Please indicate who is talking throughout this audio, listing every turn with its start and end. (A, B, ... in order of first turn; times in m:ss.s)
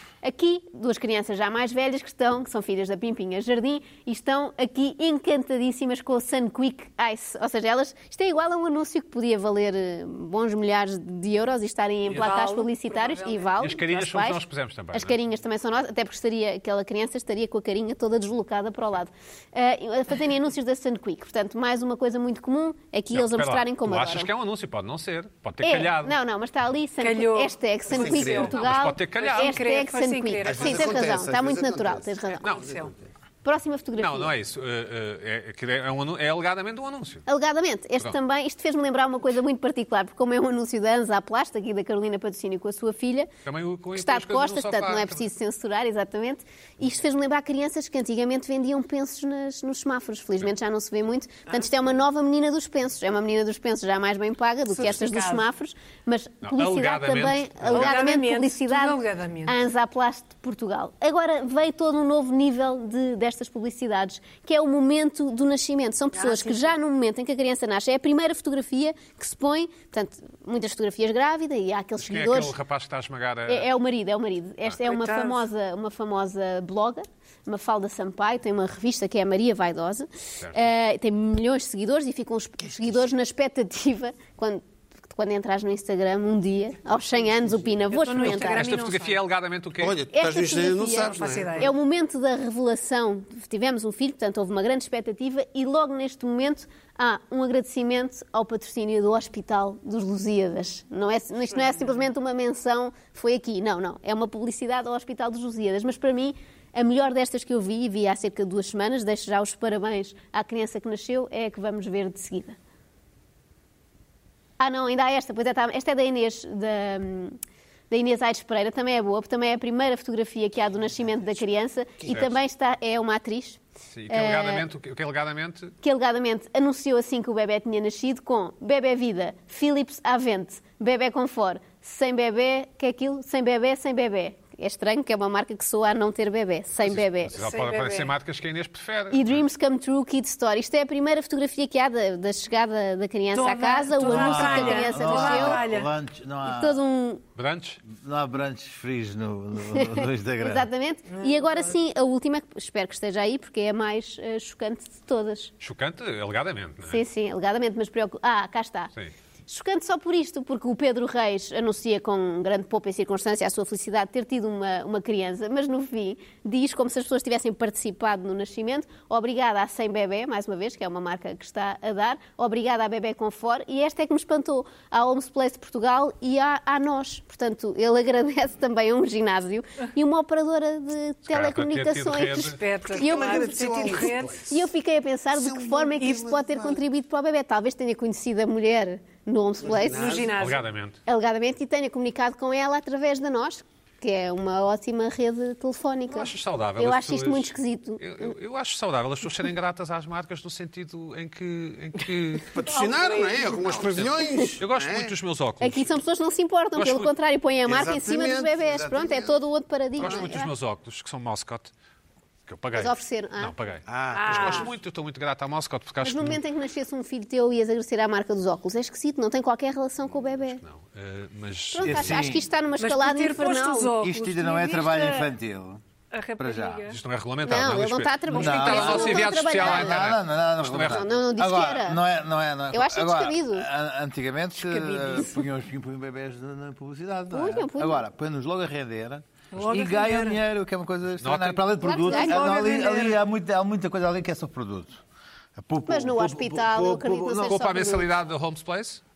0:00.2-0:14.4 A
0:12.1-0:13.6 B
0:13.6-0:15.2 C
0:14.9-0:24.3 A
0:23.1-0:26.1 C
0:25.6-0:32.5 A
0:27.0-0:28.6 B
0:27.9-0:28.5 D
0:28.4-0:29.6 C
0:29.2-0:31.1 B
0:30.4-0:33.0 D
0:32.4-0:32.8 C
0:32.6-0:32.9 B
0:33.4-0:34.3 A
0:34.0-0:37.2 C
0:37.2-0:43.3 A
0:43.4-0:45.2 C
0:43.9-1:12.6 A
0:54.7-0:55.4 B
0:56.4-0:58.0 C
0:57.7-0:59.6 B
1:06.1-1:06.7 B
1:12.0-1:13.7 C
1:13.5-1:28.7 A
1:14.8-1:15.4 B
1:20.4-1:20.7 C
1:27.9-1:29.2 B
1:28.2-1:30.0 C
1:29.8-1:31.7 D
1:30.1-1:52.6 A
1:31.0-1:31.7 B
1:54.6-1:57.4 A
1:57.9-2:04.6 A
2:02.0-2:02.3 D
2:03.9-2:05.7 C
2:05.8-2:17.4 A
2:16.8-2:19.4 C
2:17.3-2:18.1 B
2:19.1-2:25.7 A
2:23.3-2:25.9 B
2:24.0-2:26.8 E
2:26.4-2:27.2 A
2:27.4-2:27.8 C
2:27.8-2:30.7 E
2:29.7-2:35.5 A
2:31.1-2:31.6 B
2:35.6-2:37.0 C
2:36.8-2:38.9 A
2:39.5-3:10.3 A
3:01.3-3:02.6 C
3:02.5-3:04.4 B
3:02.9-3:04.5 D
3:05.3-3:06.8 D
3:09.6-3:10.4 D
3:09.9-3:10.6 B
3:10.4-3:11.0 C
3:11.0-3:18.3 A
3:16.1-3:22.6 C
3:22.5-3:25.1 D
3:22.6-3:24.1 B
3:23.6-3:25.9 C
3:25.6-3:30.5 A
3:26.8-3:27.1 C
3:27.6-3:29.3 D
3:30.0-3:31.7 C
3:30.0-3:30.3 D
3:32.5-3:36.4 C
3:32.7-3:33.5 A
3:33.8-3:34.7 D
3:34.1-3:34.7 B
3:36.0-3:40.6 A
3:40.4-3:42.3 C
3:41.7-3:44.0 A
3:41.8-3:42.5 E
3:42.8-3:45.3 B
3:44.0-3:45.8 E
3:46.1-3:47.0 B
3:46.4-3:46.9 E
3:46.9-3:51.1 C
3:47.4-3:50.1 A
3:48.3-4:05.0 E
3:48.6-3:49.0 B
3:50.8-3:52.0 A
3:52.7-3:53.7 A
3:54.6-3:55.4 B
3:57.3-3:58.0 A
3:59.5-4:00.4 B
4:01.2-4:01.7 C
4:01.8-4:02.6 A
4:02.0-4:03.2 B
4:05.6-4:07.6 E
4:05.9-4:08.1 A
4:07.4-4:09.0 C